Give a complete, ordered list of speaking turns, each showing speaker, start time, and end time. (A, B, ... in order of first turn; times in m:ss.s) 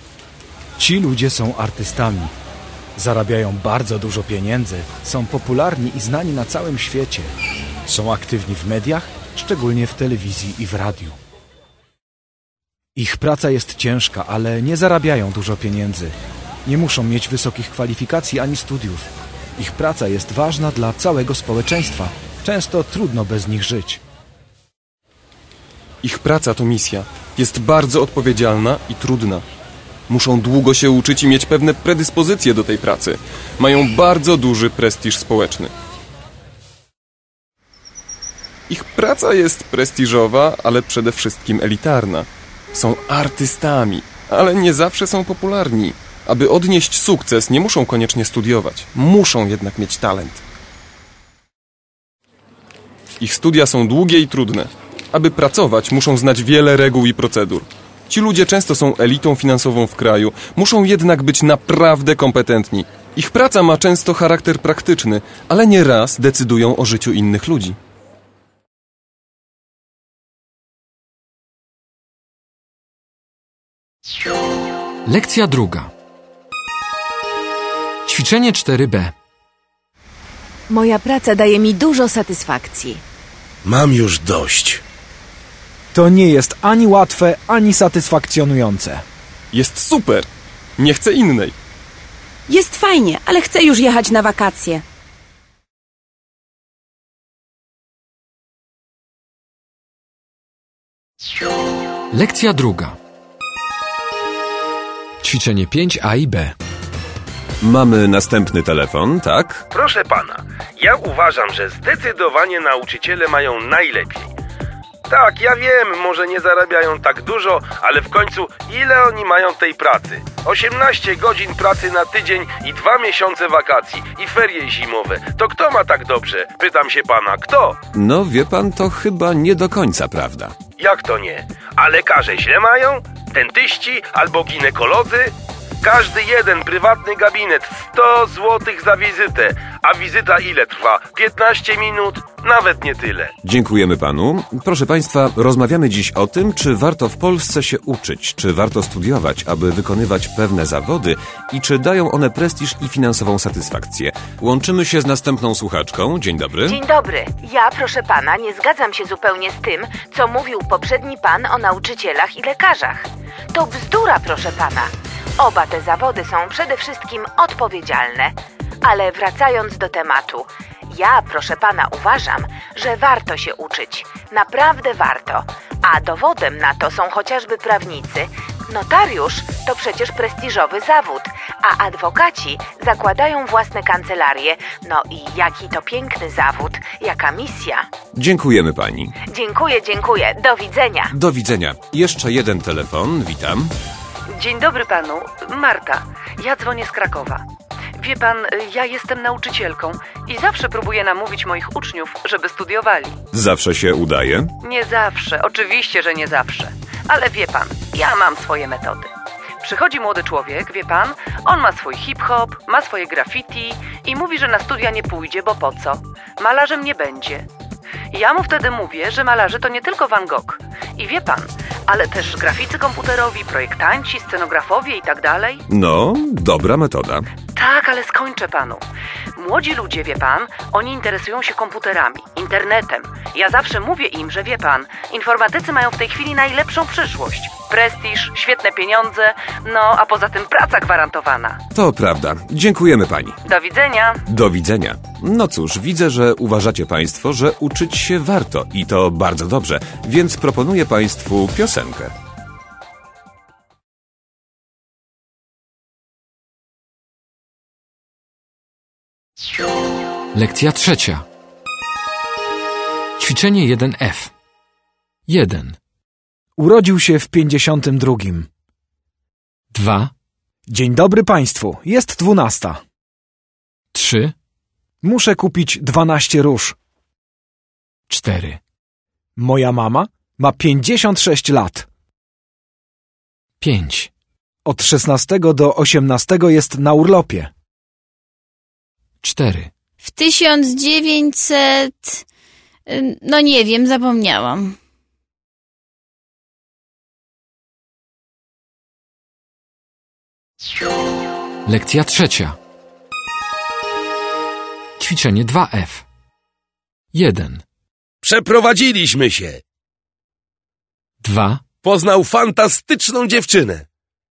0:00.8-0:02.3 A
0:03.0-0:07.3 A
0:07.8-0:11.2 A
0:12.9-0:16.1 A
0:16.6-0:24.0 A
0:26.0-0:29.4 B
0:30.1-0:35.7 B
0:38.7-0:50.4 B
0:53.2-1:07.8 B
1:15.0-1:15.9 C
1:18.0-1:19.1 C
1:20.7-1:23.0 D
1:23.6-1:24.8 E
1:25.9-1:29.0 A
1:29.5-1:30.2 B
1:30.8-1:31.5 B
1:32.5-1:34.8 F
1:42.1-1:43.0 C
1:45.2-1:46.5 C
1:47.6-1:49.6 G
1:49.7-1:54.3 E
1:55.1-2:07.8 E
2:07.9-2:10.6 G
2:10.8-2:23.3 E
2:23.4-2:36.8 G
2:36.6-3:07.9 D
3:08.1-3:09.1 G
3:09.3-3:11.1 D
3:11.1-3:13.7 G
3:14.3-3:17.4 H
3:18.0-3:23.2 H
3:23.3-3:24.5 G
3:24.6-3:37.5 H
3:38.1-3:45.6 H
3:45.7-3:47.2 G
3:47.5-3:48.8 H
3:49.3-4:01.6 H
4:01.7-4:03.4 G
4:03.4-4:04.2 H
4:04.3-4:12.1 G
4:20.3-4:21.2 C
4:23.2-4:24.3 C
4:25.3-4:25.8 C
4:26.6-4:28.5 A
4:29.7-4:30.1 C
4:30.7-4:32.8 A
4:33.9-4:34.3 C
4:35.0-4:36.7 A
4:38.1-4:38.6 C
4:39.4-4:41.9 A
4:43.6-4:44.1 C
4:44.6-4:47.5 A
4:49.2-4:49.7 C
4:50.0-4:52.2 I
4:52.9-4:54.8 I
5:01.6-5:02.6 C
5:05.0-5:06.0 C
5:07.1-5:07.6 C
5:08.2-5:09.6 E
5:11.2-5:11.6 C
5:11.8-5:13.8 E